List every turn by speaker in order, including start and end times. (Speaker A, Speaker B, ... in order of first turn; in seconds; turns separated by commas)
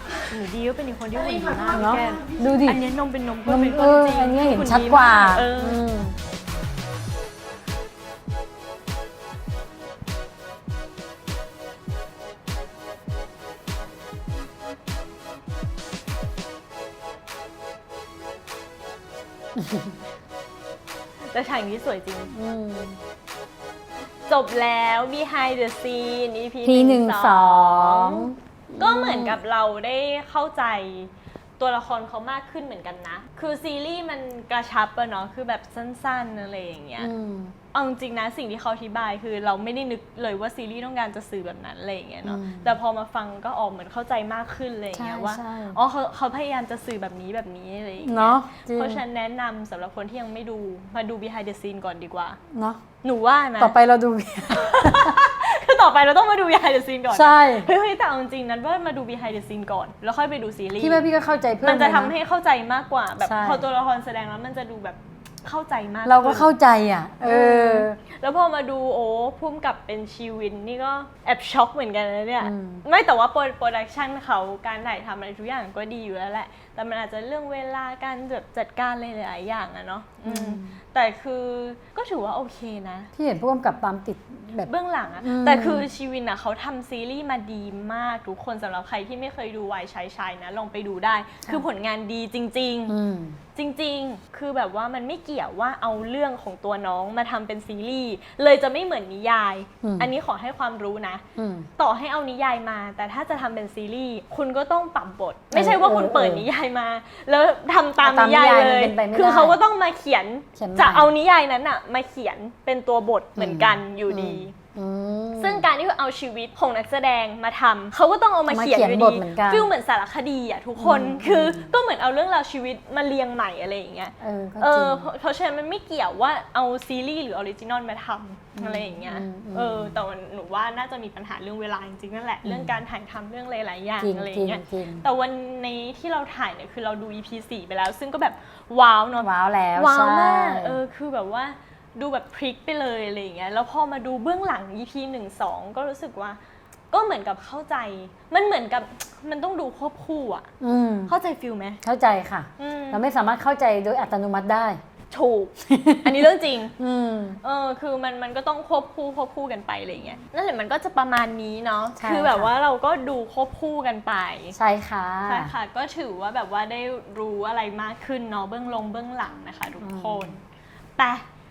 Speaker A: 0.3-5.8, Speaker B: 1.7-2.8, Speaker B: 3.5-6.2, Speaker B: 19.6-19.9, Speaker A: 21.3-22.3, Speaker B: 22.3-23.0, Speaker A: 24.3-28.2, Speaker B: 26.6-29.4, Speaker A: 28.8-37.1, Speaker B: 37.0-37.5, Speaker A: 37.7-52.4, Speaker B: 42.2-42.8, Speaker B: 45.0-45.8, Speaker B: 48.0-49.0, Speaker B: 52.5-52.8, Speaker A: 53.0-53.7, Speaker B: 53.6-55.2, Speaker A: 54.7-61.1, Speaker B: 57.1-57.7, Speaker B: 60.8-62.1, Speaker A: 61.6-66.5, Speaker B: 63.2-63.6, Speaker B: 66.0-68.0, Speaker A: 67.2-83.1, Speaker B: 72.4-72.8, Speaker B: 80.2-80.8, Speaker B: 83.2-85.9, Speaker A: 84.6-93.0, Speaker B: 92.9-93.4, Speaker A: 93.5-101.2, Speaker B: 99.8-100.1, Speaker B: 101.4-101.7, Speaker A: 101.8-114.5, Speaker B: 105.5-106.5, Speaker B: 108.0-109.6, Speaker B: 110.6-111.1, Speaker B: 113.4-115.7, Speaker A: 115.4-146.4, Speaker B: 118.5-119.7, Speaker B: 120.8-121.7, Speaker B: 124.2-125.1, Speaker B: 128.6-130.0, Speaker B: 132.4-132.8, Speaker B: 134.0-135.1, Speaker B: 139.2-140.8, Speaker A: 146.9-150.5, Speaker B: 150.6-151.2, Speaker A: 151.1-151.8, Speaker B: 151.8-154.8, Speaker A: 152.6-153.0, Speaker A: 155.1-156.7, Speaker B: 155.7-156.3, Speaker B: 156.8-157.4, Speaker A: 157.4-164.6, Speaker B: 162.0-162.5, Speaker B: 164.6-165.5, Speaker A: 165.3-170.4, Speaker B: 169.8-170.4, Speaker A: 171.0-171.2